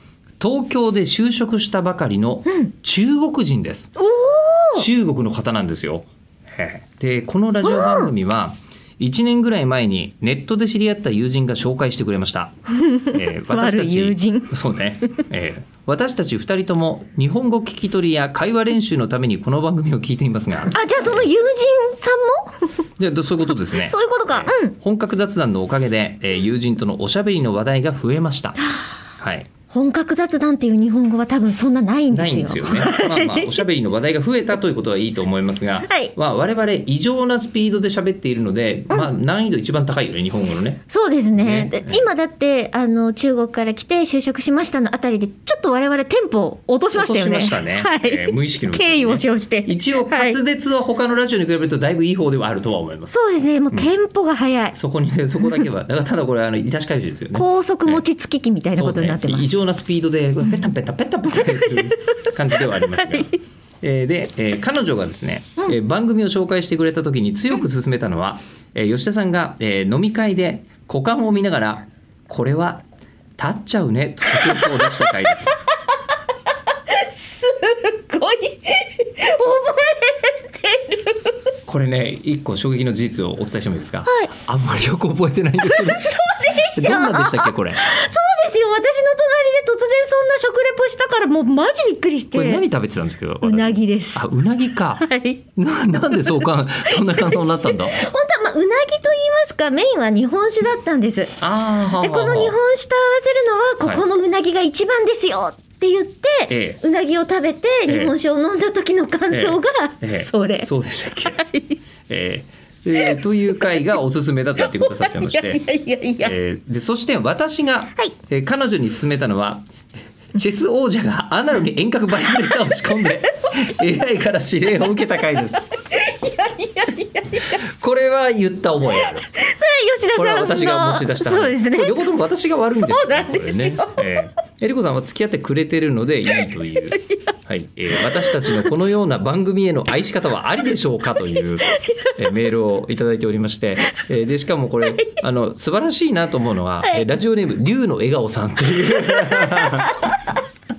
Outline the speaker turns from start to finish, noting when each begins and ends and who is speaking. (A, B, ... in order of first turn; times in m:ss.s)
0:00.4-0:03.9 A
0:04.0-0:04.9 B
0:04.7-0:12.6 A
0:07.6-0:08.1 B
0:12.8-0:14.5 B
0:13.1-0:21.3 A
0:20.7-0:22.7 B
0:23.0-0:28.6 A
0:23.7-0:24.7 B
0:29.2-0:29.5 A
0:29.7-0:33.6 B
0:32.1-0:40.8 A
0:35.9-0:36.1 B
0:40.9-0:50.4 B
0:41.4-0:42.1 A
0:46.9-0:53.1 A
0:53.1-0:54.8 B
0:54.8-0:58.0 A
0:57.3-0:59.5 B
0:58.7-1:12.8 A
1:01.6-1:01.9 B
1:13.4-1:15.6 A
1:14.4-1:15.0 B
1:16.9-1:21.3 B
1:21.7-1:27.9 A
1:25.6-1:32.7 B
1:32.3-1:35.0 A
1:33.4-1:34.2 B
1:35.0-1:35.4 B
1:35.6-1:38.0 A
1:36.3-1:41.3 B
1:41.4-1:42.6 A
1:41.9-1:50.7 B
1:46.5-1:46.8 A
1:47.9-1:48.1 A
1:49.3-1:51.4 A
1:51.2-1:51.8 B
1:52.1-1:55.6 A
1:54.6-1:56.4 B
1:56.2-1:59.7 A
2:00.3-2:05.7 A
2:05.9-2:07.4 B
2:07.5-2:09.3 A
2:09.3-2:12.0 B
2:10.2-2:30.0 A
2:12.7-2:14.2 B
2:16.9-2:17.2 B